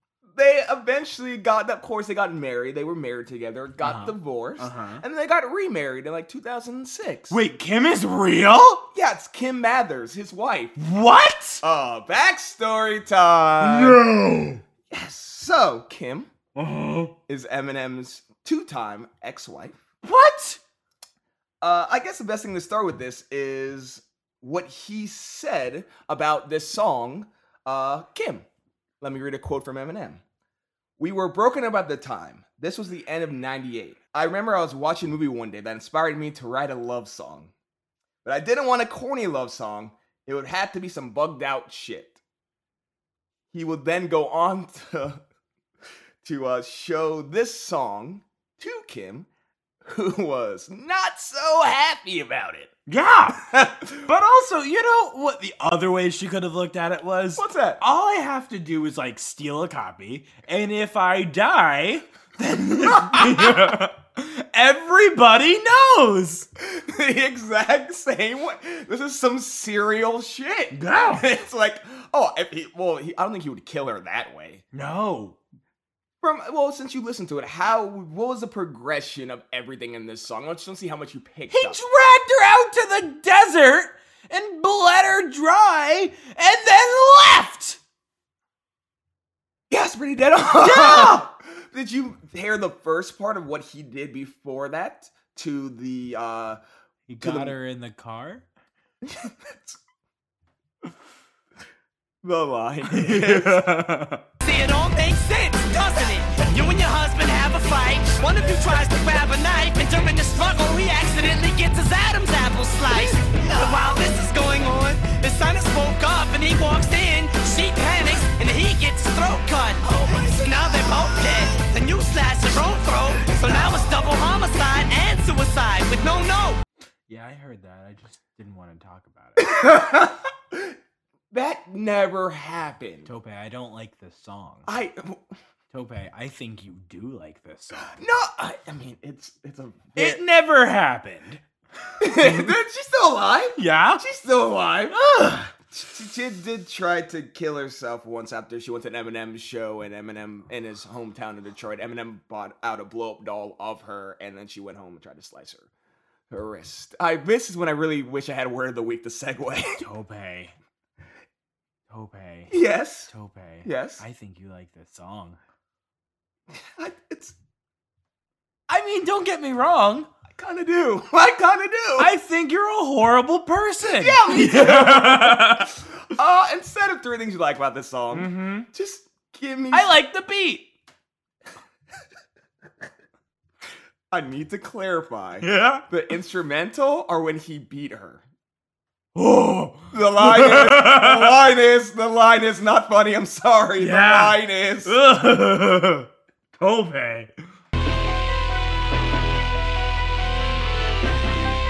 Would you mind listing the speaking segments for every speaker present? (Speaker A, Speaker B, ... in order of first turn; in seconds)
Speaker A: 0.3-7.4, 8.9-10.8, 11.6-14.0, 14.9-16.3, 17.3-19.8, 21.6-28.4, 29.0-30.2, 31.0-37.5, 38.2-42.2, 43.5-45.2, 46.2-49.3, 49.8-52.7, 53.4-54.1, 57.4-57.8, 62.8-63.7, 66.6-74.6, 76.2-81.8, 89.7-96.6, 97.2-97.5, 99.0-99.8, 102.2-103.7, 129.4-130.8, 131.3-133.1, 134.7-135.2, 137.9-140.2, 142.0-145.0, 145.7-155.7, 156.3-159.8, 162.5-163.1, 163.6-164.0, 166.5-167.3, 170.3-172.1, 173.9-179.9, 184.1-188.2, 189.9-195.0
Speaker B: 3.8-5.0, 7.3-8.8, 10.8-11.6, 13.6-14.6, 16.5-17.1, 20.0-20.6, 52.9-66.5, 70.7-71.3, 74.7-75.4, 81.5-87.8, 90.6-91.3, 97.1-98.5, 102.9-104.2, 127.1-129.6, 133.1-134.7, 135.7-137.9, 139.9-141.4, 142.0-142.5, 143.6-144.0, 144.9-145.5, 159.8-160.5, 161.9-162.5, 163.1-165.4, 168.7-170.1, 172.0-175.7, 178.1-178.7, 179.7-180.7, 185.4-185.8, 189.1-191.4, 193.8-197.3
Speaker C: 104.4-126.6